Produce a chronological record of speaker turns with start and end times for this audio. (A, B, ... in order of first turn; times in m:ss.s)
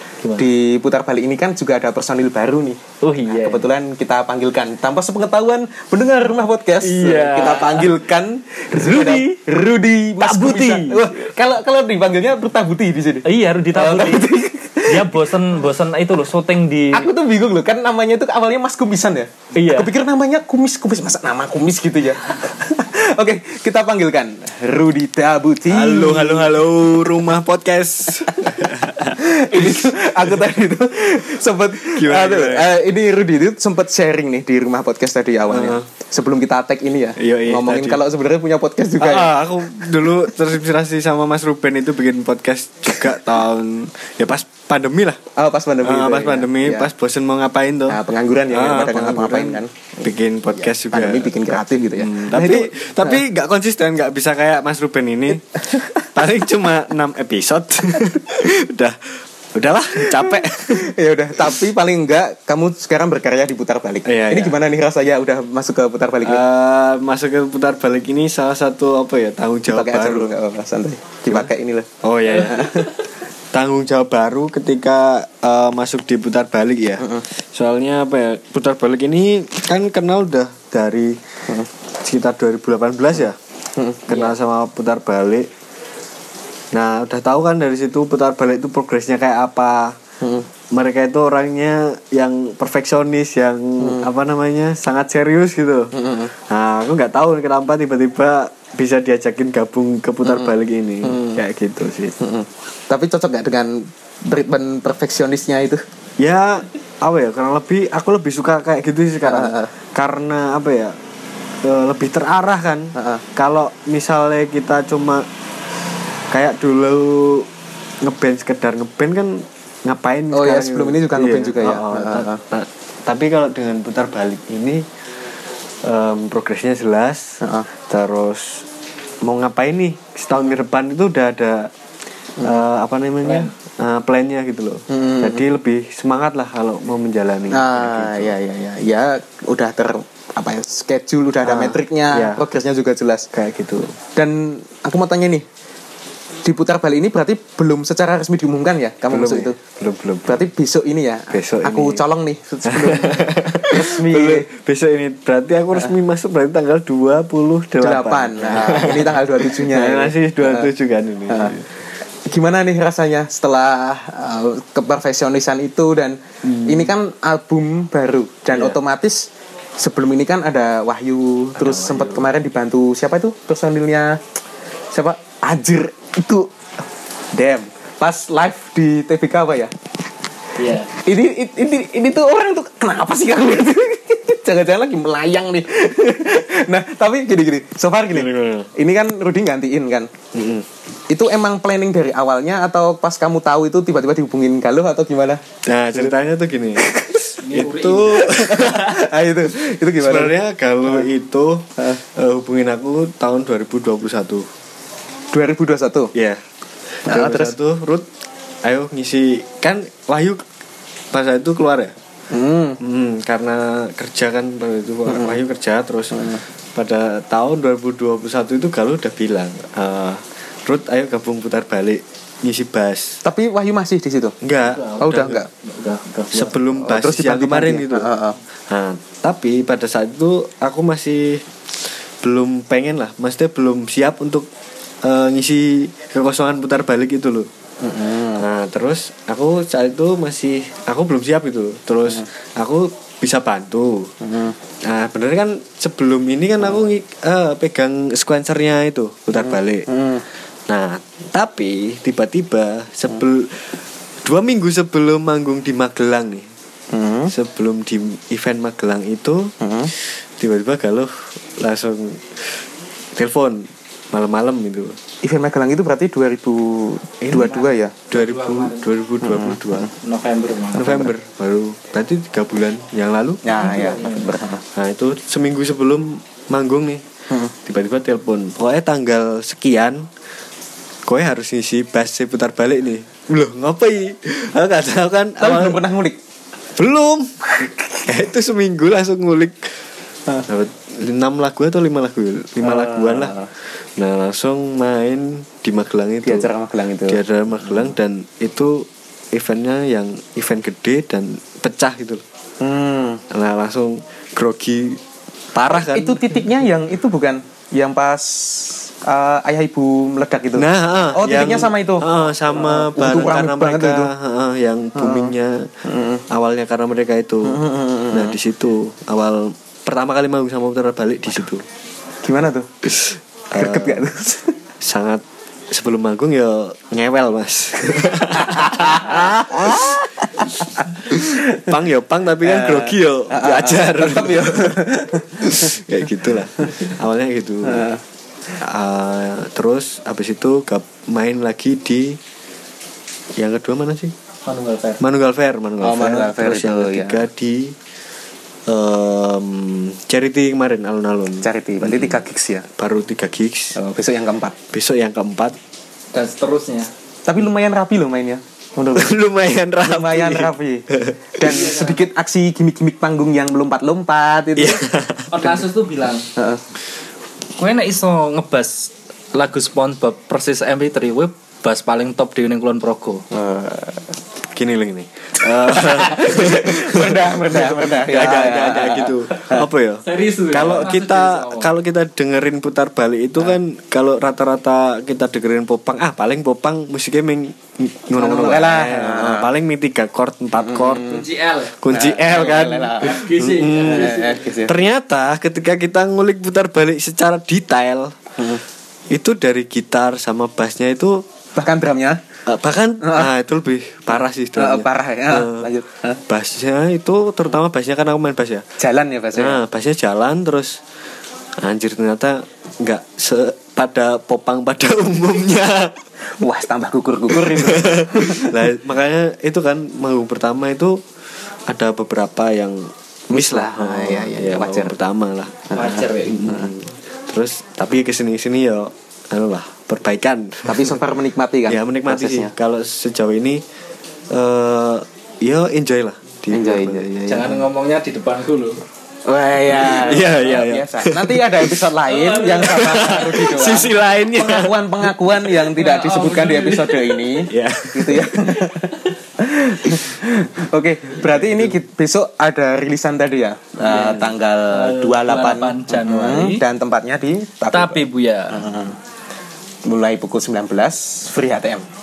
0:00.2-0:00.5 A
0:00.4-0:15.3 B
0:03.0-0:03.7 A
0:06.8-0:07.9 A
0:08.7-0:09.4 A
0:10.2-0:11.3 A
0:13.2-0:14.3 A
0:14.8-0:17.1 A
0:16.9-0:26.6 B
0:19.6-0:19.9 A
0:25.7-0:30.0 C
0:28.3-0:39.4 B
0:31.8-0:32.7 C
0:35.5-0:35.8 C
0:37.2-0:38.0 C
0:39.0-0:45.2 C
0:45.4-0:46.9 B
0:45.8-0:48.0 C
0:47.9-0:49.9 B
0:48.5-0:51.3 C
0:50.6-0:53.2 B
0:52.0-1:01.6 C
0:55.7-0:56.0 B
1:00.0-1:06.4 B
1:04.1-1:04.6 C
1:06.2-1:10.3 C
1:09.7-1:13.0 B
1:12.0-1:12.9 C
1:13.5-1:21.2 C
1:17.0-1:17.2 B
1:22.0-1:23.4 C
1:23.8-1:24.2 B
1:24.1-1:25.5 C
1:26.7-1:30.0 C
1:30.2-1:30.5 B
1:30.7-1:36.0 C
1:33.8-1:34.1 B
1:35.9-1:36.3 B
1:36.5-1:42.2 C
1:40.2-1:41.4 B
1:42.2-1:45.8 B
1:46.2-1:51.0 C
1:49.2-1:49.7 B
1:51.6-1:55.3 C
1:53.0-1:53.2 B
1:56.3-1:57.5 C
1:58.0-2:04.8 C
2:00.3-2:02.4 B
2:05.8-2:08.7 C
2:07.4-2:07.7 B
2:09.2-2:11.7 C
2:12.4-2:18.3 C
2:13.2-2:13.5 A
2:14.9-2:15.4 B
2:17.5-2:23.3 B
2:21.4-2:22.4 C
2:23.3-2:24.0 C
2:24.2-2:25.4 B
2:26.4-2:29.6 B
2:29.1-2:30.4 C
2:30.3-2:34.5 B
2:31.3-2:32.0 C
2:32.7-2:41.7 C
2:37.8-2:40.7 B
2:41.3-2:41.6 B
2:42.2-2:54.2 B
2:46.4-2:46.9 C
2:54.9-2:56.5 B
2:57.3-2:59.7 B
3:00.6-3:00.9 A
3:00.9-3:10.1 B
3:08.1-3:08.7 C
3:10.3-3:10.7 C
3:11.1-3:16.1 B
3:15.7-3:19.0 C
3:16.8-3:17.4 B
3:17.4-3:18.8 A
3:18.2-3:20.4 B
3:20.0-3:24.5 C
3:25.3-3:26.1 B
3:26.2-3:26.4 C
3:27.0-3:28.1 C
3:27.1-3:27.5 B
3:28.6-3:30.4 C
3:31.1-3:31.9 C
3:32.3-3:32.8 B
3:32.8-3:43.2 C
3:35.1-3:35.4 B
3:36.1-3:36.4 B
3:43.2-3:44.4 B
3:44.4-3:45.4 C
3:44.6-3:46.5 A
3:45.0-3:45.5 B
3:46.3-3:48.1 C
3:46.8-3:48.4 B
3:48.7-3:51.5 C
3:52.2-3:54.5 C
3:55.0-3:57.5 C
3:57.8-3:58.4 B
3:58.3-4:04.1 C
4:04.2-4:04.6 B
4:04.9-4:09.9 C
4:09.3-4:10.2 B
4:10.7-4:16.5 C
4:16.9-4:17.3 B
4:17.3-4:22.6 C
4:19.6-4:19.9 B
4:23.2-4:25.0 C
4:25.2-4:28.0 B
4:27.2-4:29.9 C
4:27.5-4:28.9 A
4:29.2-4:29.9 B
4:30.0-4:31.0 A
4:30.7-4:31.1 B
4:30.8-4:33.4 C
4:33.4-4:34.6 B
4:33.6-4:34.3 A
4:34.8-4:37.0 C
4:37.6-4:40.1 C
4:41.1-4:45.8 C
4:45.4-4:46.2 B
4:46.8-4:49.8 C
4:50.5-4:53.4 C
4:52.6-4:53.5 B
4:54.0-4:56.5 C
4:56.2-4:57.2 B
4:57.1-5:02.2 C
5:02.6-5:03.2 B
5:03.3-5:05.0 C
5:05.6-5:06.4 C
5:05.7-5:14.1 B
5:10.6-5:15.7 C
5:15.0-5:16.2 B
5:16.3-5:21.6 C
5:17.4-5:18.4 B
5:22.2-5:22.7 B
5:22.9-5:24.1 C
5:23.5-5:24.5 B
5:24.8-5:37.9 C
5:28.3-5:31.7 B
5:32.4-5:35.8 B
5:37.6-5:38.0 B
5:38.6-5:42.2 C
5:43.4-5:44.1 C
5:44.5-5:45.0 A
5:45.0-5:47.8 C
5:45.8-5:47.3 B
5:48.7-5:52.2 C
5:51.4-5:52.7 B
5:52.8-5:53.8 C
5:53.8-5:54.6 B
5:54.7-5:55.6 C
5:56.1-5:56.9 A
5:57.3-5:59.2 B
5:59.0-6:01.7 C
5:59.8-6:00.9 B
6:01.4-6:04.8 B
6:01.5-6:02.0 A
6:04.6-6:05.5 C
6:05.3-6:06.3 A
6:06.4-6:06.6 B
6:07.6-6:13.2 A
6:13.3-6:14.1 B
6:14.5-6:31.2 C
6:15.4-6:19.7 B
6:20.0-6:21.7 A
6:28.1-6:29.5 B
6:30.5-6:31.2 B
6:31.1-6:31.8 A
6:31.8-6:38.2 C
6:31.9-6:33.2 B
6:33.0-6:34.4 A
6:33.8-6:34.8 B
6:38.4-6:38.6 B
6:39.1-6:41.2 C
6:41.6-6:42.2 B
6:42.5-6:45.7 C
6:43.0-6:43.3 B
6:44.1-6:46.2 B
6:46.3-6:48.7 C
6:48.8-6:49.6 B
6:49.4-6:50.8 C
6:51.6-6:56.0 C
6:56.4-6:58.7 B
6:57.3-7:01.0 C
7:01.7-7:05.7 C
7:03.3-7:05.0 B
7:05.7-7:06.7 B
7:05.7-7:06.5 A
7:06.3-7:11.1 C
7:10.7-7:12.5 B
7:11.7-7:13.6 C
7:14.3-7:17.1 C
7:16.5-7:17.6 B
7:17.3-7:18.8 A
7:19.3-7:39.0 B
7:19.7-7:21.9 C
7:22.1-7:22.7 A
7:22.5-7:25.1 C
7:25.7-7:27.1 A
7:27.5-7:28.7 C
7:33.9-7:34.3 C
7:34.7-7:36.6 A
7:37.7-7:38.7 A
7:39.8-7:41.8 B